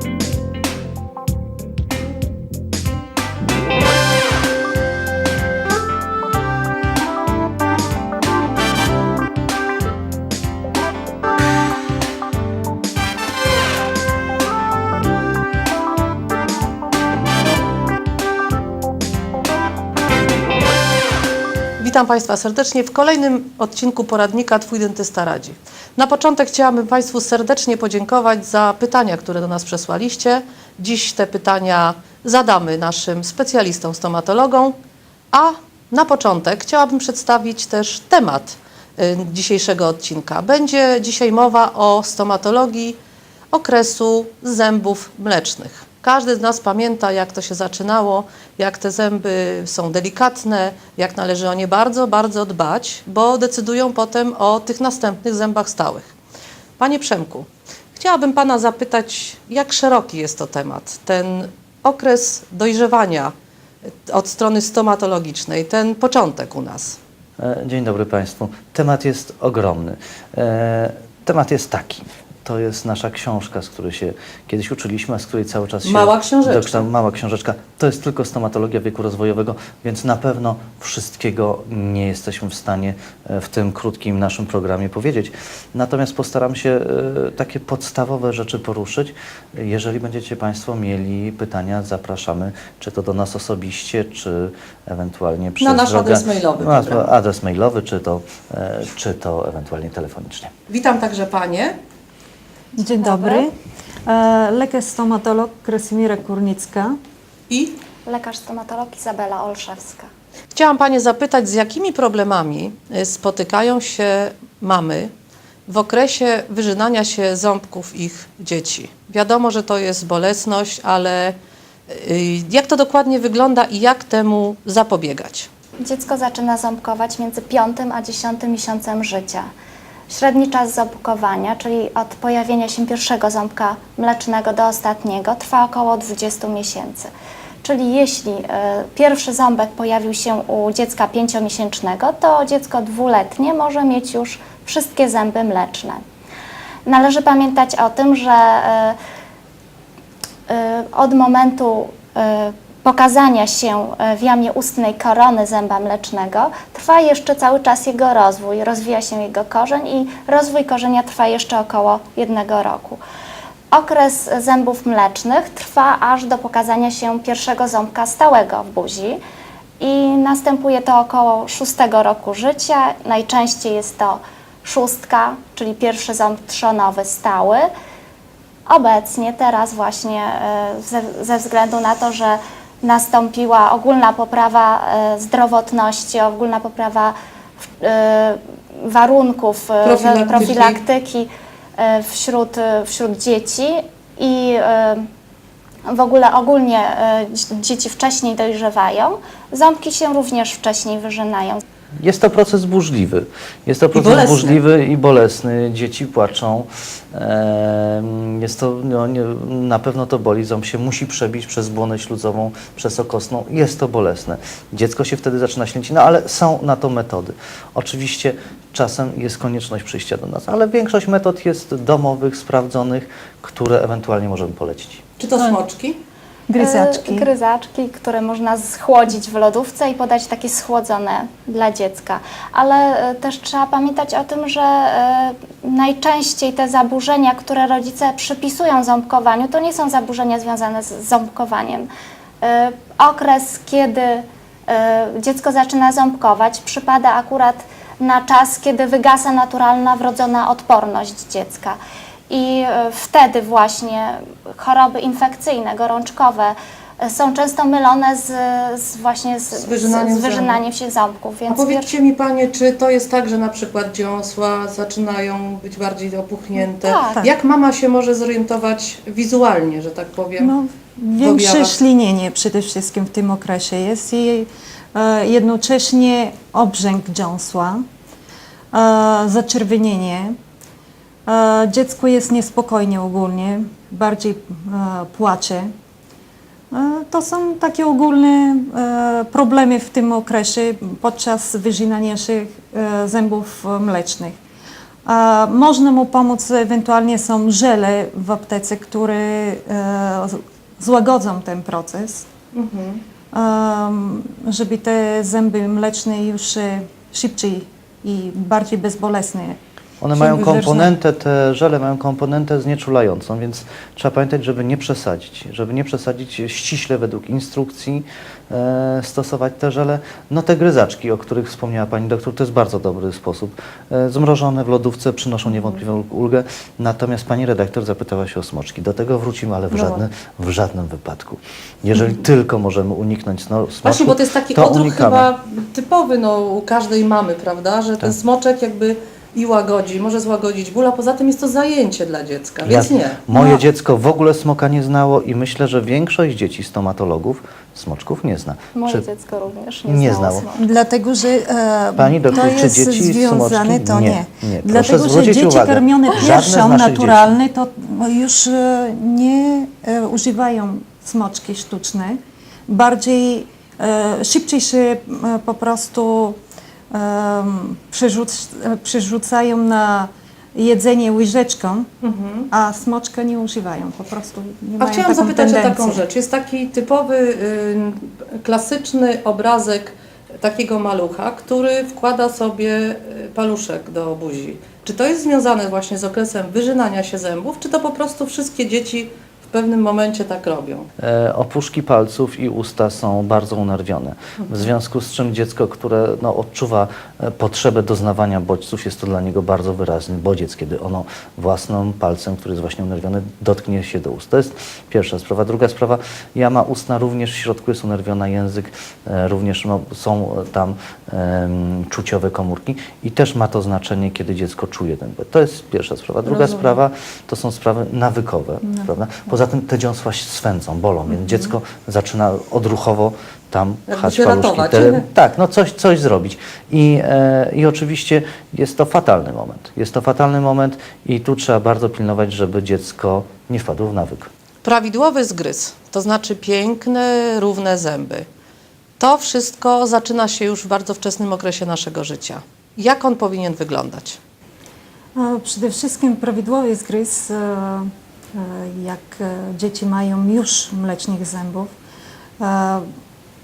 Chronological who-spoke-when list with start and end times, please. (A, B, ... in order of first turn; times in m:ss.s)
0:21.8-0:34.8 A
0:35.3-0:43.0 A
0:43.5-0:56.1 A
0:56.8-1:03.3 A
1:04.1-1:07.0 A
1:07.4-1:40.5 B
1:15.8-1:16.9 A
1:35.6-1:37.2 A
1:40.7-1:41.8 A
1:42.8-1:43.5 C
1:43.0-1:43.4 D
1:44.1-1:47.0 C
1:47.5-1:47.8 A
1:48.0-1:50.1 D
1:50.6-1:55.1 A
1:55.7-2:01.4 A
2:01.9-2:05.5 A
2:05.8-2:09.5 D
2:10.1-2:17.1 D
2:17.6-2:26.0 D
2:26.9-2:29.0 D
2:30.5-2:43.0 D
2:43.7-2:49.2 D
2:49.8-2:57.7 D
2:58.7-3:07.1 D
3:07.8-3:15.1 D
3:09.8-3:10.8 A
3:15.9-3:21.6 D
3:22.0-3:45.0 B
3:23.9-3:24.6 A
3:45.2-3:46.0 A
3:46.5-3:47.3 C
3:46.6-4:01.9 D
4:02.4-4:11.8 D
4:12.3-4:21.9 D
4:19.5-4:20.6 A
4:21.5-4:30.5 A
4:26.6-4:27.3 D
4:30.4-4:37.8 C
4:31.2-4:31.8 A
4:38.7-4:40.4 C
4:41.3-4:45.7 C
4:46.7-4:54.4 C
4:55.1-5:02.3 C
5:02.5-5:03.0 A
5:03.3-5:09.6 C
5:10.0-5:35.3 B
5:10.1-5:10.9 C
5:29.7-5:30.0 A
5:33.8-5:43.2 A
5:42.6-5:49.0 B
5:43.3-5:43.6 C
5:48.8-5:50.6 D
5:49.9-5:50.5 B
5:50.6-6:06.4 C
5:52.0-5:57.3 B
6:06.9-6:11.9 C
6:12.0-6:12.5 A
6:12.5-6:16.0 C
6:14.8-6:30.9 A
6:31.0-7:14.3 B
6:34.4-6:34.7 A
6:56.3-6:56.8 A
7:03.9-7:05.0 A
7:14.6-7:18.3 A
7:19.0-7:24.2 A
7:25.2-7:31.7 C
7:32.4-7:32.9 C